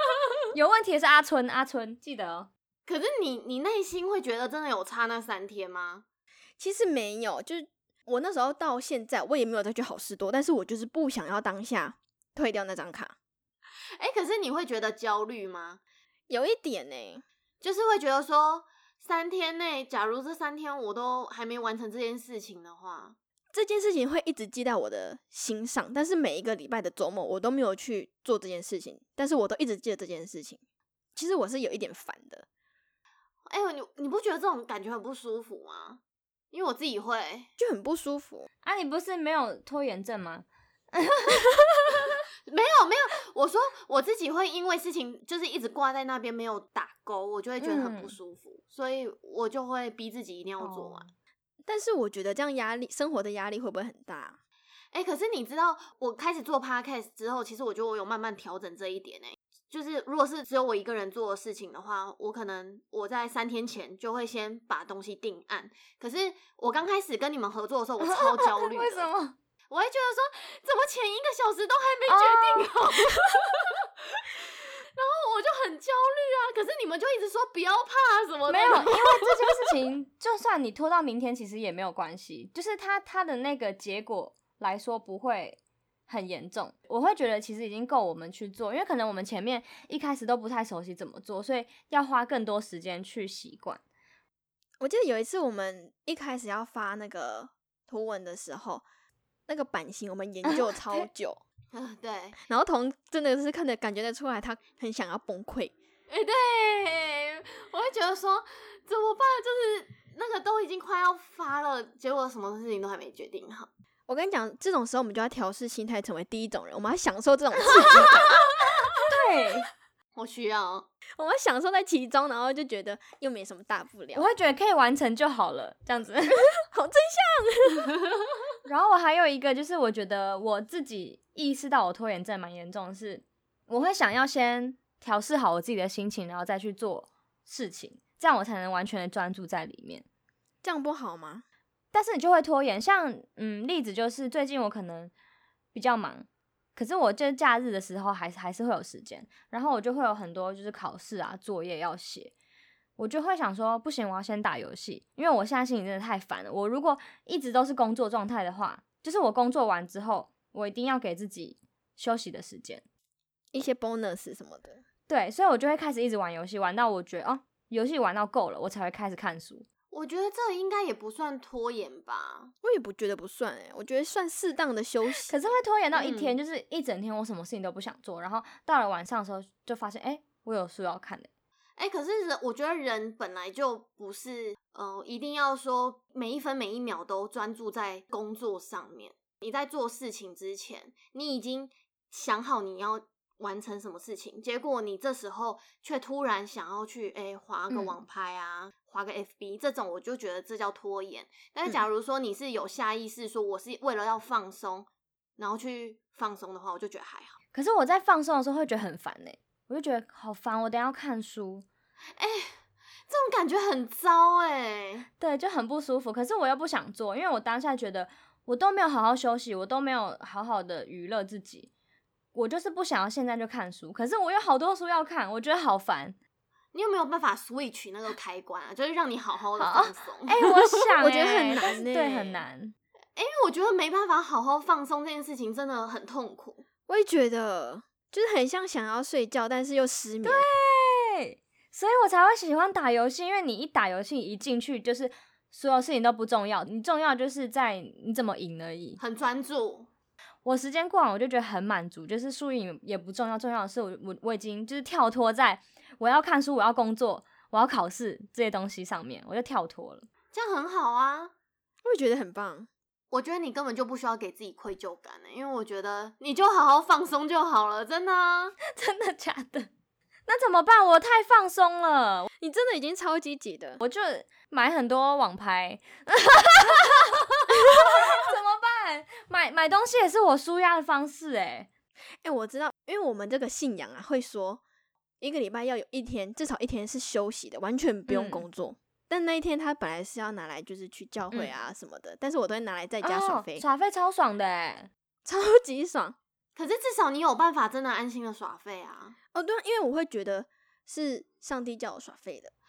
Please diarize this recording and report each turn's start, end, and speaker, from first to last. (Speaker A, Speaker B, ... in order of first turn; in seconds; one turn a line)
Speaker A: 0.5-2.5
Speaker B: 2.9-6.0
Speaker C: 6.6-13.1
Speaker B: 14.0-15.8
Speaker C: 16.3-17.2
Speaker B: 17.6-23.1
Speaker C: 23.5-30.6
Speaker C: 31.1-32.5
Speaker B: 33.5-36.0
Speaker B: 36.5-37.5
Speaker C: 37.6-38.5
Speaker A: 38.6-42.0
Speaker B: 42.5-51.1
Speaker A: 47.6-48.1
Speaker A: 50.6-51.1
Speaker C: 51.6-54.4
Speaker B: 54.9-69.1
Speaker A: 68.0-69.3
Speaker B: 69.7-79.3
Speaker A: 72.1-72.7
Speaker A: 78.5-93.8
Speaker C: 94.8-98.8
Speaker C: 99.5-101.4
Speaker B: 101.7-102.4
Speaker C: 102.5-105.7
Speaker B: 106.1-113.7
Speaker C: 114.1-118.4
Speaker B: 117.9-118.5
Speaker A: 119.0-119.7
Speaker B: 120.2-120.9
Speaker C: 121.2-124.3
Speaker A: 124.1-126.5
Speaker C: 126.7-128.0
Speaker A: 128.6-140.0
Speaker C: 140.6-141.4
Speaker A: 141.9-145.1
Speaker A: 145.7-152.3
Speaker A: 153.0-162.8
Speaker C: 163.5-164.8
Speaker A: 165.1-169.7
Speaker B: 169.9-172.5
Speaker C: 172.6-175.4
Speaker A: 175.3-181.3
Speaker B: 175.9-176.3
Speaker B: 181.8-207.4
Speaker A: 197.7-198.0
Speaker A: 207.5-211.7
Speaker B: 212.2-212.6
Speaker B: 213.1-215.1
Speaker A: 215.2-221.7
Speaker A: 222.3-226.2
Speaker B: 226.7-230.9
Speaker A: 229.6-232.7
Speaker C: 231.0-232.4
Speaker B: 233.2-236.6
Speaker C: 236.9-240.5
Speaker A: 240.2-249.0
Speaker B: 249.0-249.9
Speaker A: 250.4-260.1
Speaker B: 260.3-261.3
Speaker C: 261.8-262.7
Speaker B: 263.1-268.6
Speaker A: 268.6-269.7
Speaker A: 270.3-272.3
Speaker C: 272.4-273.8
Speaker A: 273.8-281.7
Speaker C: 277.6-278.0
Speaker C: 282.2-284.6
Speaker C: 285.2-293.6
Speaker A: 288.1-288.4
Speaker A: 291.3-291.6
Speaker A: 293.0-294.9
Speaker C: 295.2-296.2
Speaker B: 296.6-299.1
Speaker C: 299.3-302.5